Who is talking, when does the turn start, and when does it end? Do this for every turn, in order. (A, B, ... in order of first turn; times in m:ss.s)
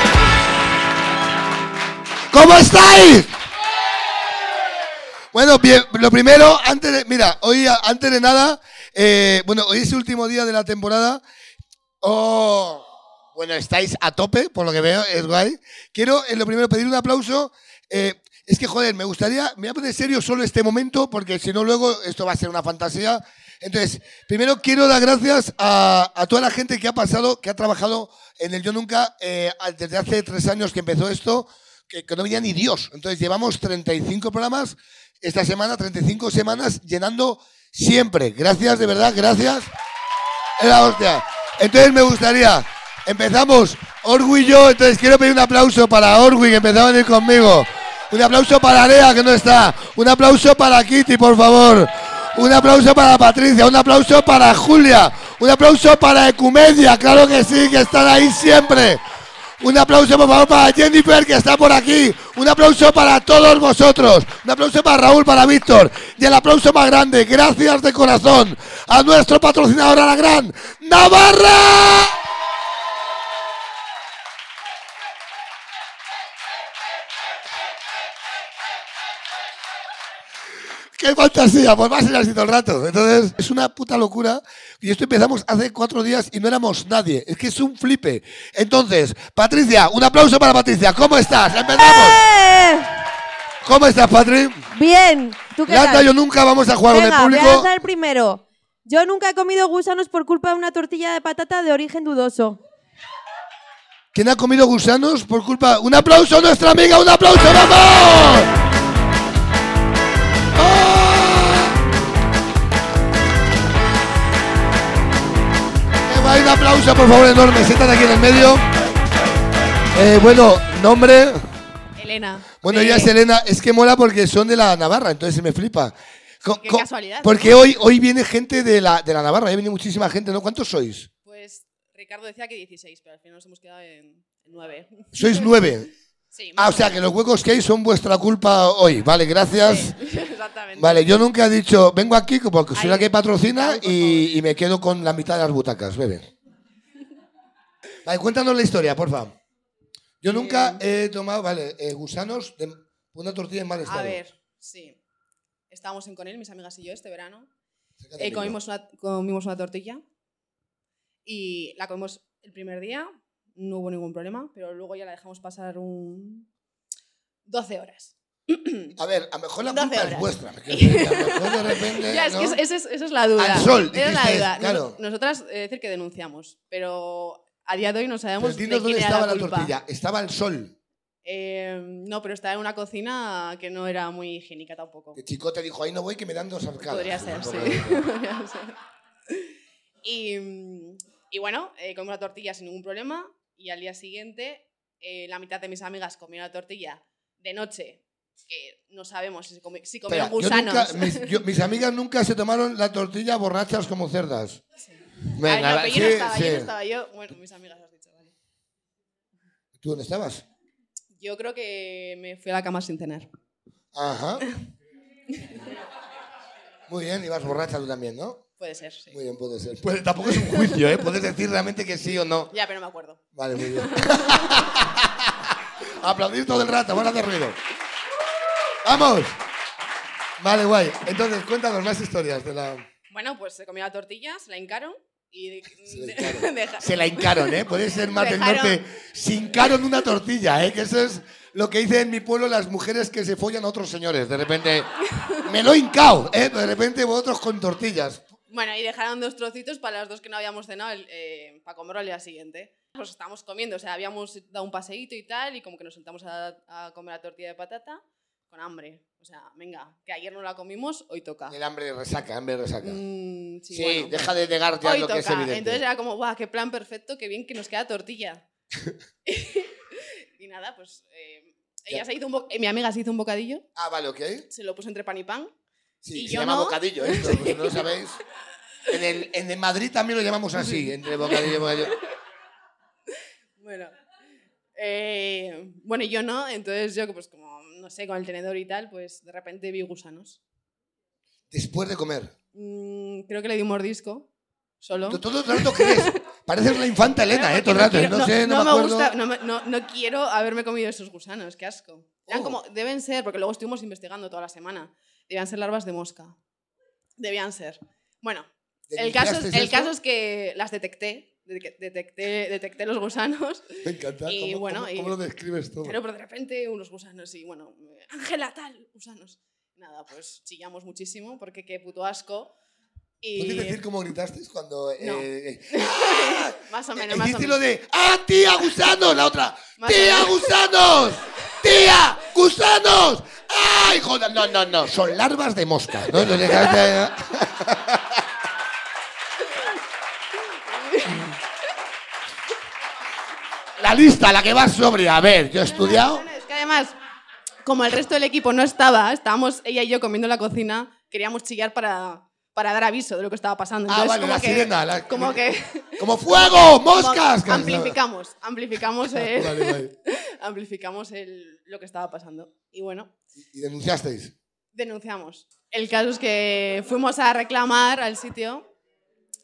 0:02.3-0:03.3 A
0:05.3-0:11.2 A
0:12.0-0:39.7 A
0:40.6-0:59.0 A
0:59.6-1:12.2 A
1:21.0-1:32.3 A
1:31.8-1:32.9 B
1:33.6-1:34.6 A
1:34.7-1:36.1 B
1:35.7-1:37.7 A
1:36.9-1:42.6 B
1:44.1-1:48.5 A
1:50.6-1:51.8 A
1:56.0-1:58.7 A
1:59.9-2:01.5 A
2:02.0-2:03.1 C
2:02.6-2:11.1 A
2:06.6-2:07.4 C
2:11.3-2:15.5 C
2:15.1-2:15.9 A
2:16.3-2:17.0 C
2:16.6-2:20.0 A
2:19.6-2:21.1 C
2:20.8-2:26.3 A
2:22.7-2:24.3 C
2:28.0-2:29.4 A
2:30.2-2:34.2 A
2:30.3-2:30.8 C
2:33.9-2:35.0 C
2:35.7-2:37.5 C
2:38.0-2:38.6 A
2:38.2-2:40.0 C
2:41.2-2:46.5 C
2:47.5-2:49.0 C
2:49.0-2:52.6 A
2:49.7-2:59.7 C
2:53.4-2:55.0 A
2:58.4-3:00.8 A
3:01.2-3:05.2 C
3:05.2-3:08.1 A
3:06.8-3:08.8 C
3:10.0-3:21.4 C
3:20.1-3:24.6 A
3:24.8-3:28.3 C
3:25.4-3:26.7 A
3:29.8-3:30.4 A
3:31.2-3:33.3 C
3:33.9-3:34.5 A
3:36.9-3:38.4 A
3:38.6-3:39.2 C
3:39.1-3:42.5 A
3:40.4-3:40.7 C
3:42.5-3:44.6 C
3:43.3-3:47.6 A
3:48.8-3:49.4 A
3:50.4-3:52.8 A
3:53.1-3:57.6 C
3:55.9-4:08.2 A
3:58.2-3:58.8 C
4:08.5-4:21.6 C
4:21.5-4:23.0 A
4:22.8-4:24.3 C
4:23.7-4:25.8 A
4:24.8-4:28.4 C
4:29.3-4:33.6 C
4:33.8-4:34.5 A
4:34.5-4:35.5 C
4:36.0-4:38.2 A
4:36.1-4:37.8 C
4:38.9-4:42.0 A
4:43.6-4:43.9 C
4:44.8-4:50.4 C
4:51.5-4:52.3 A
4:52.5-4:54.3 C
4:54.8-4:56.2 C
4:55.1-4:59.2 A
4:57.3-5:06.4 C
5:02.3-5:02.6 A
5:07.2-5:13.8 C
5:08.9-5:09.9 A
5:13.8-5:16.0 A
5:14.3-5:15.2 C
5:15.8-5:22.5 C
5:23.2-5:23.8 C
5:23.4-5:38.2 A
5:25.0-5:27.6 C
5:29.8-5:30.5 C
5:40.7-5:41.3 C
5:43.8-5:46.3 A
5:45.7-5:47.0 C
5:47.6-5:56.1 C
5:53.9-5:55.4 A
5:56.0-5:58.0 A
5:56.9-6:03.1 C
5:59.1-5:59.9 A
6:03.4-6:04.3 A
6:04.7-6:08.7 C